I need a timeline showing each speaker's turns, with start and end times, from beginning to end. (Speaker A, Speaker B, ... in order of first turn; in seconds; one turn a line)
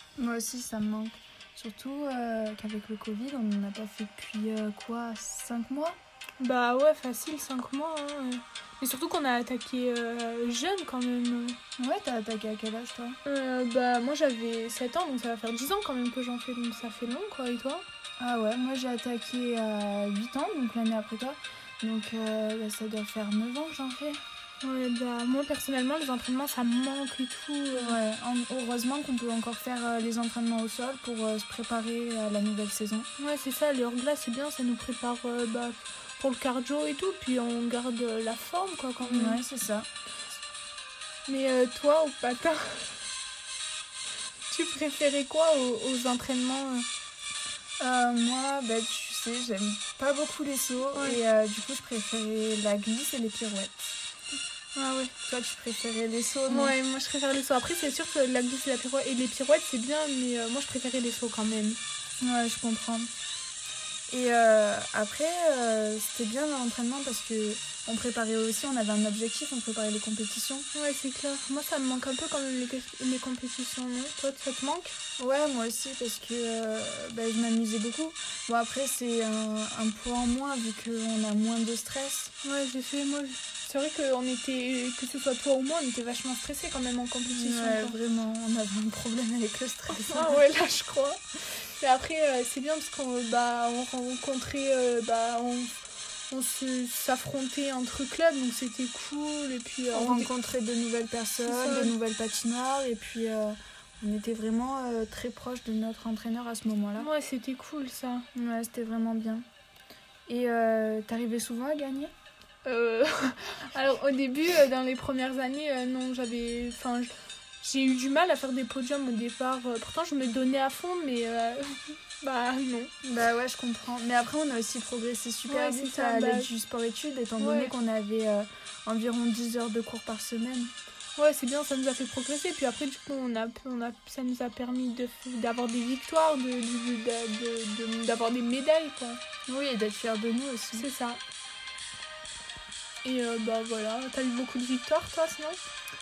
Speaker A: 0.2-6.0
Speaker B: 6.4-11.6
Speaker A: 11.8-13.2
Speaker B: 13.2-17.8
Speaker A: 18.2-24.2
Speaker B: 24.6-28.0
Speaker A: 27.7-33.1
Speaker B: 33.2-39.4
Speaker A: 39.0-39.9
Speaker B: 41.3-42.9
Speaker B: 44.5-46.9
Speaker A: 47.8-54.0
Speaker B: 50.9-51.2
Speaker B: 54.7-55.1
Speaker A: 55.2-56.8
Speaker B: 56.5-61.8
Speaker A: 62.2-63.1
Speaker A: 64.1-70.7
Speaker B: 70.7-74.9
Speaker A: 75.2-82.3
Speaker B: 82.4-88.0
Speaker A: 87.3-90.4
Speaker B: 90.1-95.8
Speaker B: 96.3-100.3
Speaker A: 99.9-107.1
Speaker B: 101.5-101.9
Speaker B: 107.0-108.2
Speaker A: 108.3-109.4
Speaker A: 110.3-112.1
Speaker B: 112.6-122.9
Speaker A: 123.0-130.7
Speaker B: 125.5-126.5
Speaker B: 127.4-127.7
Speaker B: 131.2-139.2
Speaker A: 139.5-140.9
Speaker B: 140.7-141.2
Speaker B: 143.0-145.6